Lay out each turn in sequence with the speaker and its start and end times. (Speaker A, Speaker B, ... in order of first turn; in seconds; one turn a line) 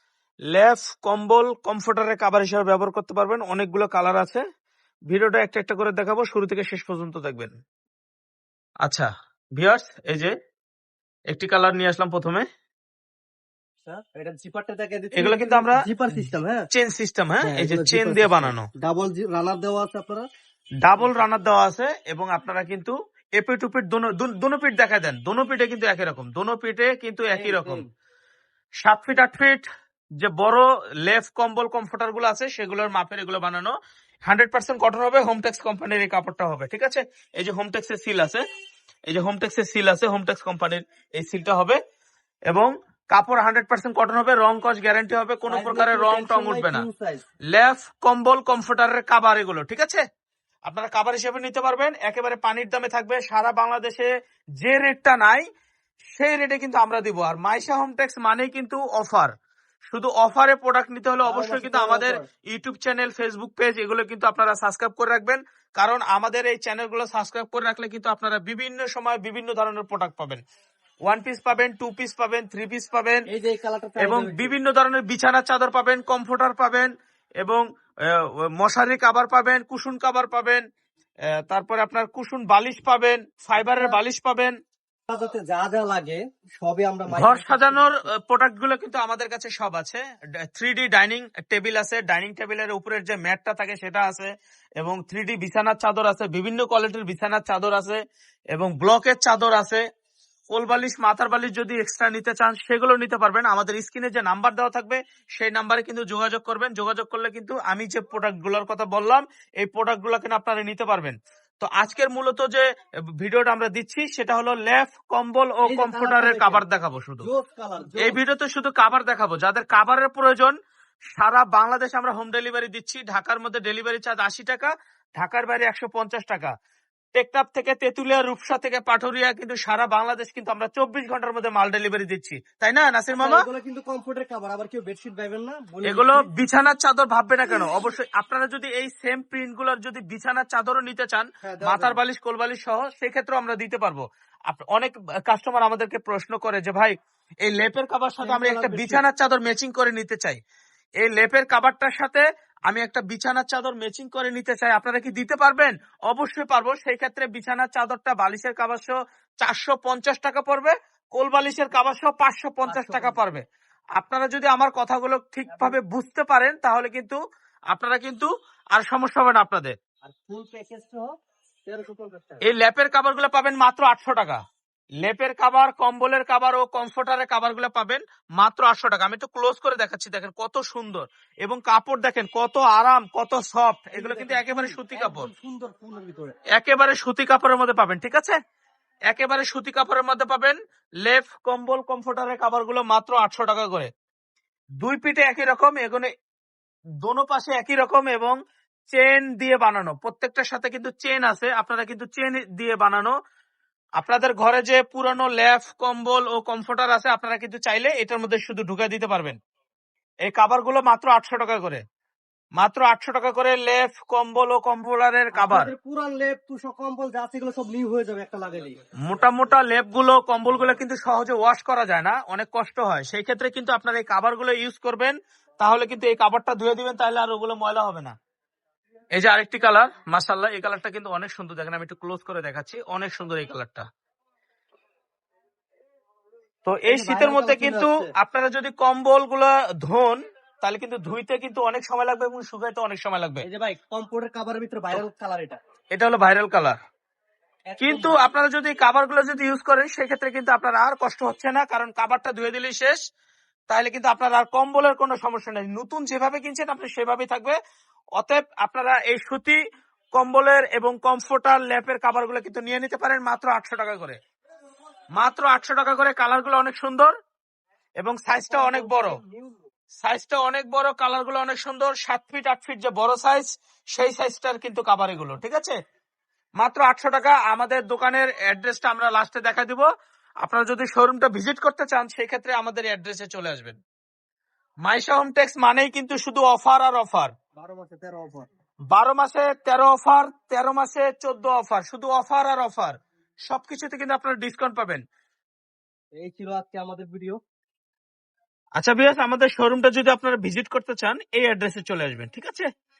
Speaker A: 0.5-4.4
Speaker A: 5.1-7.5
Speaker A: 8.8-10.3
Speaker A: 11.3-12.4
Speaker B: 13.8-16.6
Speaker A: 15.2-15.8
Speaker A: 16.7-18.7
Speaker B: 17.4-20.3
Speaker A: 20.8-27.8
Speaker B: 27.3-27.9
Speaker A: 28.8-29.6
Speaker A: 30.2-33.7
Speaker A: 34.3-38.4
Speaker A: 39.1-41.8
Speaker A: 42.5-46.9
Speaker B: 45.5-47.2
Speaker A: 47.5-50.0
Speaker A: 50.7-54.1
Speaker A: 54.6-55.4
Speaker A: 56.1-59.3
Speaker A: 59.9-70.4
Speaker B: 61.3-62.2
Speaker A: 71.1-73.3
Speaker B: 73.3-74.5
Speaker A: 74.0-76.9
Speaker A: 77.4-80.6
Speaker A: 81.5-84.5
Speaker B: 83.6-84.0
Speaker B: 85.1-88.1
Speaker A: 87.1-98.0
Speaker A: 98.5-99.8
Speaker A: 100.5-112.6
Speaker A: 113.2-117.3
Speaker B: 115.6-116.6
Speaker B: 117.2-118.2
Speaker A: 118.0-120.5
Speaker A: 121.1-126.5
Speaker A: 127.2-133.4
Speaker B: 133.2-136.3
Speaker A: 135.8-146.9
Speaker B: 137.5-137.8
Speaker B: 141.4-142.0
Speaker A: 147.5-150.4
Speaker B: 148.2-149.1
Speaker A: 151.0-163.4
Speaker B: 162.7-163.2
Speaker A: 164.0-167.2
Speaker B: 165.5-165.8
Speaker A: 167.7-169.8
Speaker B: 170.0-171.1
Speaker B: 171.7-172.4
Speaker A: 172.4-174.4
Speaker A: 175.0-185.3
Speaker B: 183.9-186.4
Speaker A: 186.6-188.4
Speaker A: 189.1-193.9
Speaker A: 194.8-196.1
Speaker A: 197.0-198.4
Speaker A: 198.9-203.1
Speaker A: 204.0-209.4
Speaker A: 210.3-211.8
Speaker A: 212.6-215.7
Speaker B: 215.3-218.8
Speaker A: 219.1-228.2
Speaker A: 229.2-233.9
Speaker A: 236.7-243.5
Speaker B: 236.9-238.1
Speaker B: 243.4-245.6
Speaker A: 245.9-246.8
Speaker B: 247.7-248.3
Speaker A: 247.8-253.0
Speaker A: 253.7-257.6
Speaker A: 258.2-259.6
Speaker A: 260.2-264.2
Speaker A: 265.2-267.1
Speaker A: 268.0-269.2
Speaker B: 268.5-269.7
Speaker A: 270.0-275.8
Speaker A: 276.6-279.9
Speaker A: 280.4-283.8
Speaker A: 284.9-287.3
Speaker B: 287.6-288.5
Speaker A: 288.9-293.0
Speaker A: 293.5-295.0
Speaker B: 296.2-297.4
Speaker A: 298.8-302.7